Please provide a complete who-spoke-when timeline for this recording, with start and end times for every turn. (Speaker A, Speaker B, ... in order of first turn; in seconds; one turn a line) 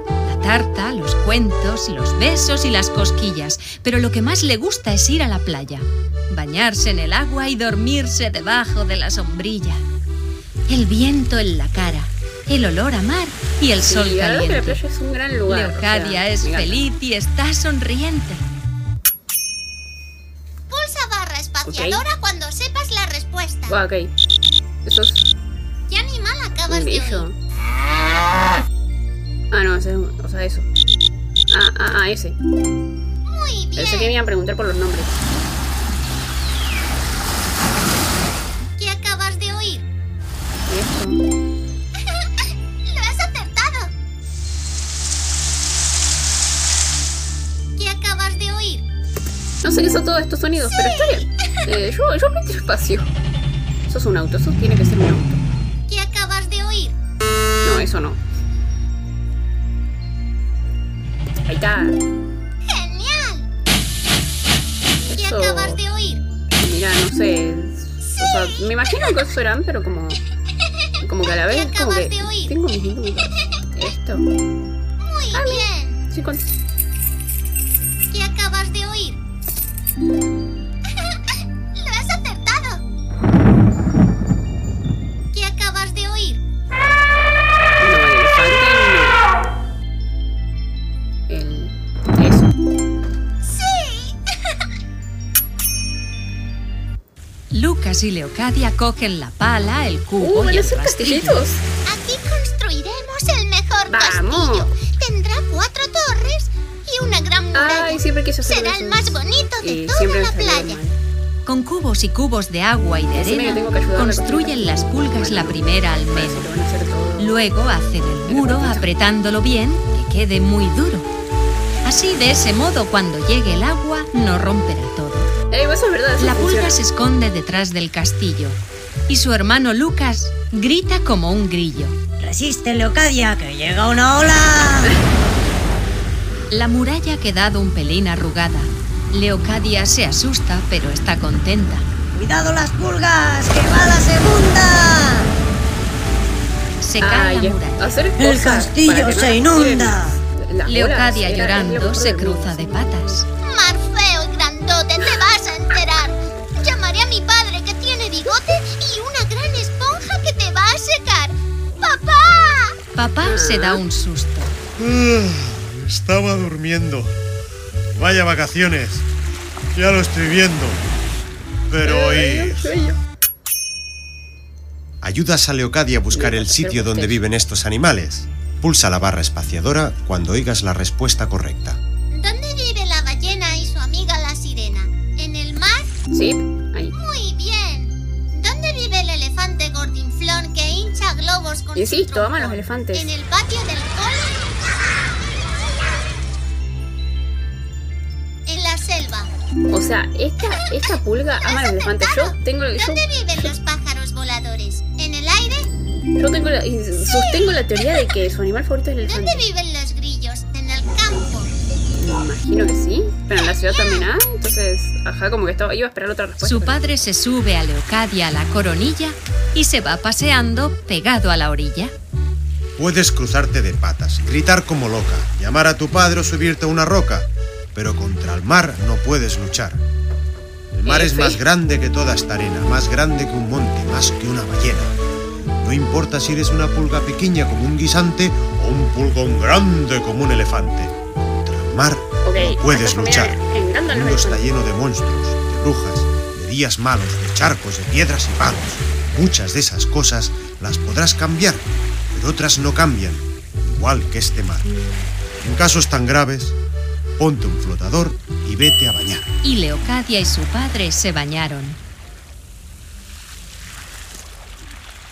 Speaker A: 0.2-9.8
Speaker A: 10.7-14.8
Speaker B: 13.8-16.8
Speaker A: 15.5-18.4
Speaker C: 20.7-23.8
Speaker B: 21.7-22.0
Speaker B: 23.7-24.1
Speaker B: 24.9-25.2
Speaker C: 25.9-27.3
Speaker B: 26.7-27.3
Speaker B: 29.5-30.7
Speaker B: 31.5-32.4
Speaker C: 33.3-34.2
Speaker B: 33.8-35.1
Speaker C: 38.8-39.8
Speaker B: 40.7-41.2
Speaker C: 42.9-43.9
Speaker C: 47.8-48.8
Speaker B: 49.6-53.1
Speaker B: 53.9-55.4
Speaker C: 55.9-57.0
Speaker B: 57.6-58.2
Speaker B: 61.5-62.0
Speaker C: 62.6-63.5
Speaker B: 65.1-65.8
Speaker C: 65.1-66.2
Speaker B: 66.6-70.2
Speaker B: 71.0-74.3
Speaker C: 71.3-72.5
Speaker C: 75.0-76.0
Speaker B: 75.3-76.5
Speaker C: 78.1-79.2
Speaker C: 81.7-82.8
Speaker C: 85.3-86.4
Speaker B: 87.8-89.2
Speaker B: 91.3-92.5
Speaker C: 93.4-94.2
Speaker A: 97.5-101.4
Speaker B: 100.2-101.6
Speaker C: 101.9-110.8
Speaker B: 103.9-104.7
Speaker B: 107.5-111.0
Speaker A: 111.5-116.5
Speaker B: 113.2-117.4
Speaker A: 117.2-121.1
Speaker B: 118.3-118.9
Speaker A: 121.8-125.3
Speaker B: 125.5-126.8
Speaker A: 126.2-132.0
Speaker D: 132.2-135.0
Speaker A: 136.5-141.9
Speaker D: 142.1-145.3
Speaker A: 146.8-147.9
Speaker B: 147.0-152.9
Speaker D: 148.2-150.2
Speaker A: 150.7-153.3
Speaker C: 153.4-162.8
Speaker A: 162.9-164.6
Speaker B: 163.2-163.8
Speaker E: 164.8-167.1
Speaker E: 167.9-169.1
Speaker E: 169.8-170.8
Speaker E: 171.7-172.7
Speaker B: 171.8-173.0
Speaker F: 175.0-181.8
Speaker B: 176.1-177.2
Speaker C: 182.1-185.9
Speaker B: 186.1-186.9
Speaker C: 186.9-194.8
Speaker B: 191.8-193.1
Speaker C: 198.5-199.3
Speaker B: 199.7-203.5
Speaker C: 200.4-205.7
Speaker B: 206.2-209.4
Speaker C: 209.0-211.5
Speaker B: 212.0-216.8
Speaker C: 213.4-214.1
Speaker A: 216.4-221.9
Speaker F: 222.8-229.8
Speaker F: 230.7-235.0
Speaker B: 230.8-231.4
Speaker F: 235.6-254.7
Speaker B: 242.2-244.5
Speaker F: 255.4-256.6
Speaker F: 257.2-259.3
Speaker A: 259.4-261.8